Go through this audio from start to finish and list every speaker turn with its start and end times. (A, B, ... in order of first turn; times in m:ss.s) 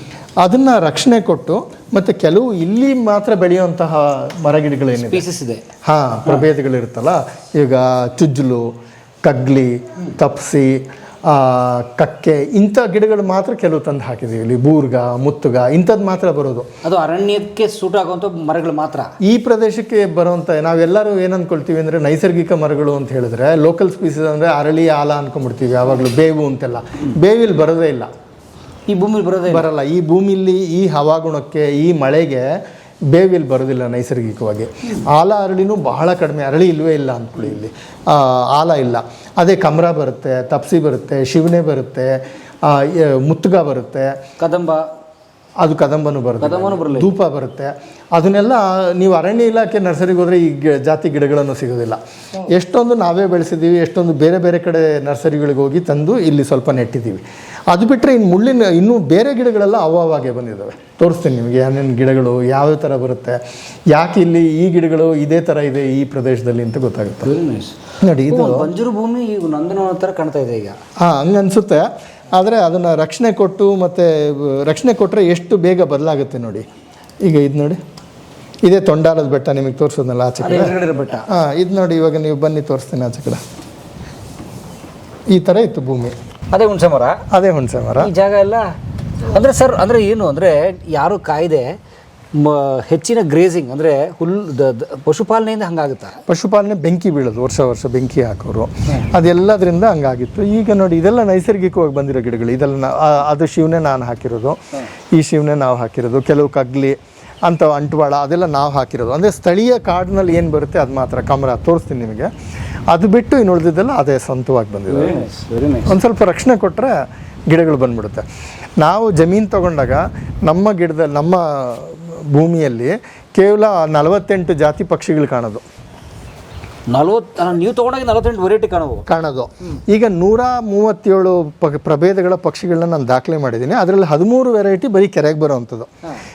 0:00.4-0:05.2 A
0:04.9-0:05.6 B
0:05.8-0:16.7 A
0:16.8-0:19.1 B
0:19.2-0:28.1 A
0:28.9-0:29.6 B
0:29.5-0:44.2 A
0:44.4-0:44.9 B
0:45.6-1:07.4 A
0:46.4-0:47.1 B
1:07.2-1:10.8 B
1:08.0-1:08.7 A
1:11.0-1:16.6 A
1:17.2-1:17.8 A
1:18.6-1:23.4 A
1:20.4-1:21.3 B
1:25.3-1:26.2 A
1:26.5-1:27.2 B
1:27.3-1:28.1 A
1:28.0-1:31.8 B
1:32.3-1:36.2 B
1:36.2-1:44.6 A
1:45.1-1:52.3 A
1:52.9-1:55.2 A
1:54.9-1:56.0 B
1:55.8-1:58.2 A
1:58.8-2:05.6 A
2:06.9-2:09.1 B
2:09.1-2:15.9 A